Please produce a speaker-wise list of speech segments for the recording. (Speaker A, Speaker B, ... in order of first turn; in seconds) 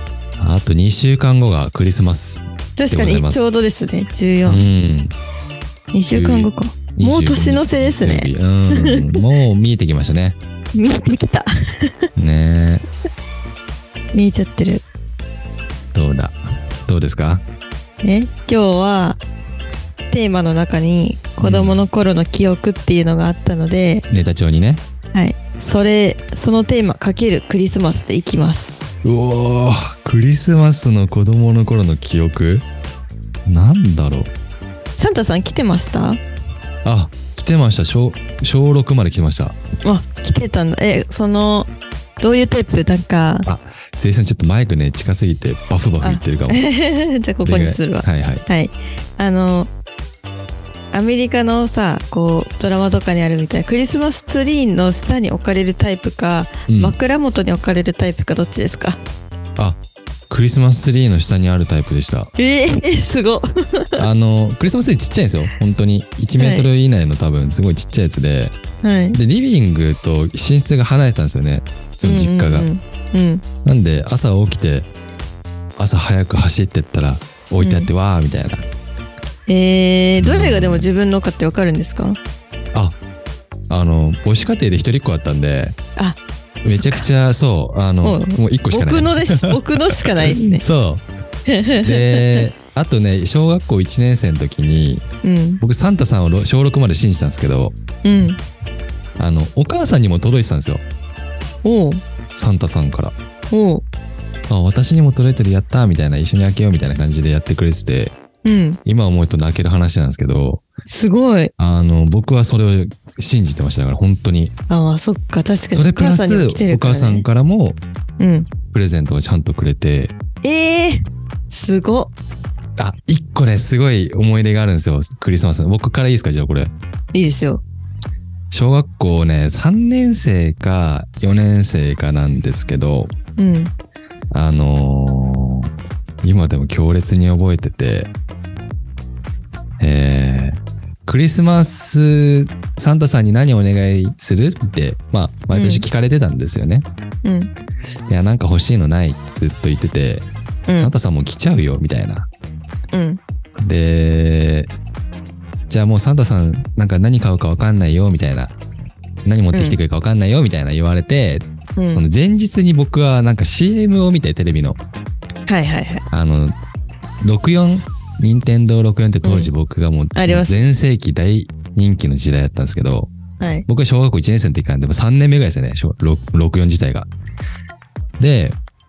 Speaker A: 0.4-3.5, 4.4-5.1, 6.1-10.3, 12.2-12.8, 15.9-17.4, 21.4-21.8, 24.1-24.8, 29.0-32.6, 33.5-34.3, 36.8-39.5, 43.5-46.6, 47.4-48.4, 56.7-57.0, 60.3-62.3, 64.0-68.5, 69.1-72.7, 73.6-74.9, 75.8-78.7, 80.2-80.9, 83.7-85.8, 86.6-91.0, 91.8-95.0, 95.6-97.8, 99.2-100.8, 102.3-103.1, 104.5-108.2, 108.8-110.6, 111.6-114.5, 115.7-117.8, 118.7-120.1, 122.8-126.7, 128.5-133.1, 134.3-135.7, 136.2-138.1, 139.8-146.8, 148.1-152.3, 153.6-154.7, 155.7-158.5, 159.2-164.8, 166.1-166.5, 167.2-173.1, 173.7-177.1, 178.2-178.6
Speaker B: 2.8-4.6, 5.9-9.2, 10.7-11.9, 14.1-14.8, 18.0-19.2, 20.1-24.1, 25.1-28.7, 35.0-36.2, 39.8-43.5, 46.0-49.7, 50.9-59.0, 62.4-64.0, 66.4-66.7, 68.8-69.2, 72.0-73.4, 77.6-77.9, 79.5-82.2, 86.7-87.0, 88.0-90.6, 91.5-92.4, 95.2-95.6, 98.0-98.4, 101.6-102.0, 103.5-103.8, 108.4-108.8, 110.9-111.5, 114.7-117.2, 118.2-118.5, 120.4-122.1, 127.1-127.6, 133.4-133.7, 145.5-145.8, 147.2-147.5, 150.7-150.9, 152.9-153.2, 159.5-159.8, 161.8-162.0, 165.5-166.0, 169.2-169.5, 170.1-170.5, 173.4-173.7